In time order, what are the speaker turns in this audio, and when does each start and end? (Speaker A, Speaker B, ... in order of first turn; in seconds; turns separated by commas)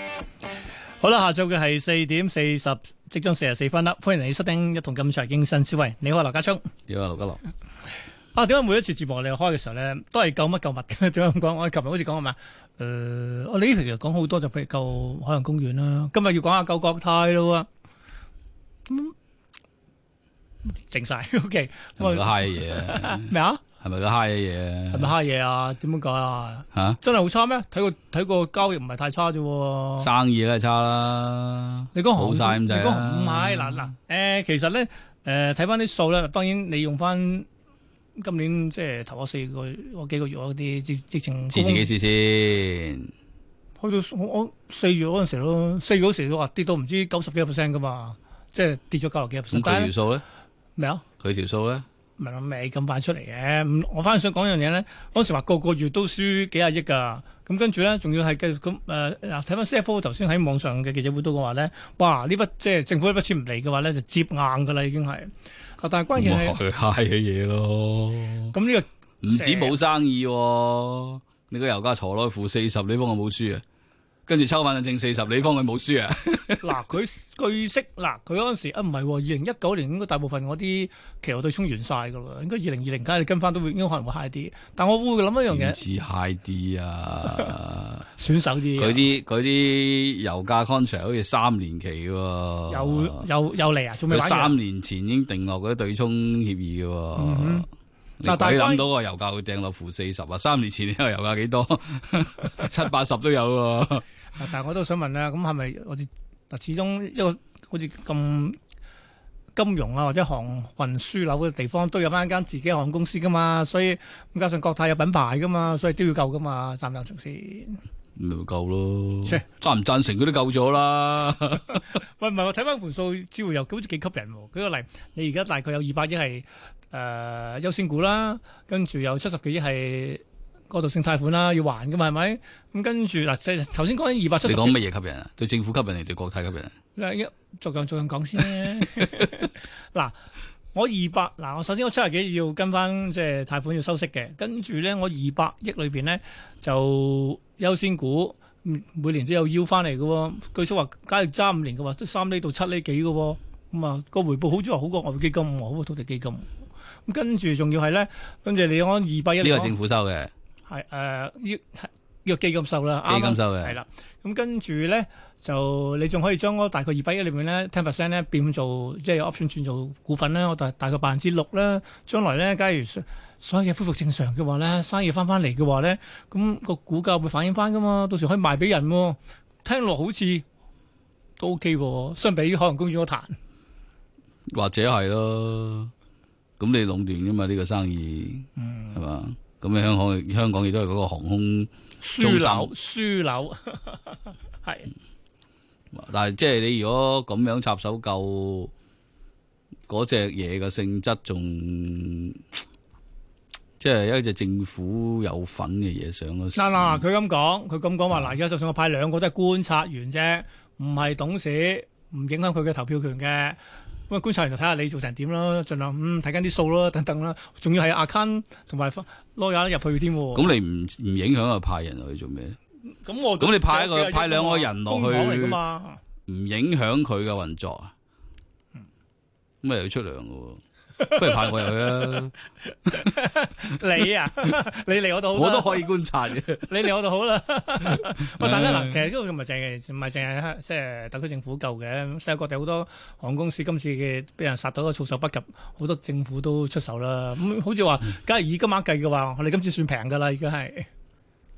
Speaker A: 1.0-6.6, Speaker B: 6.9-7.4, Speaker A: 8.3-17.7, Speaker A: 18.9-19.1, Speaker A: 20.9-23.6, Speaker B: 22.0-25.1, Speaker A: 24.9-30.1, Speaker B: 30.0-33.9, Speaker A: 31.9-37.5, Speaker A: 38.2-41.9, Speaker B: 41.5-43.1, Speaker A: 43.8-49.9, Speaker B: 49.5-50.2, Speaker A: 50.8-51.0, Speaker B: 51.2-51.8, Speaker A: 52.2-66.6, Speaker B: 66.1-68.5, Speaker A: 68.5-69.8, Speaker B: 69.2-73.6, Speaker B: 74.3-76.7, Speaker A: 76.6-85.8, Speaker B: 85.5-88.0, Speaker A: 88.2-89.0, Speaker B: 88.8-93.3, Speaker A: 92.7-94.6, Speaker B: 94.1-97.7, Speaker A: 97.2-97.6, Speaker B: 98.2-104.0, Speaker A: 98.2-98.8, Speaker A: 104.4-108.6, Speaker A: 109.5-117.8, Speaker B: 118.2-121.8, Speaker A: 122.2-134.8, Speaker B: 134.4-136.7, Speaker A: 136.9-140.1, Speaker A: 140.7-156.5, Speaker A: 157.1-159.7, Speaker B: 159.4-160.3, Speaker A: 160.7-180.4, Speaker B: 163.1-163.8, Speaker A: 181.4-183.3, Speaker B: 184.5-185.9, Speaker B: 186.6-192.7, Speaker A: 188.6-189.0, Speaker A: 192.0-194.9, Speaker B: 195.9-198.7, Speaker B: 199.9-202.4, Speaker B: 203.8-207.0, Speaker A: 206.5-220.5, Speaker B: 220.3-222.6, Speaker A: 223.0-226.0, Speaker B: 223.4-225.6, Speaker B: 226.3-227.9, Speaker B: 229.6-230.6, Speaker B: 231.1-232.3, Speaker A: 231.2-231.5, Speaker A: 232.9-235.8, Speaker B: 235.3-236.8, Speaker A: 236.7-250.9, Speaker B: 238.4-239.0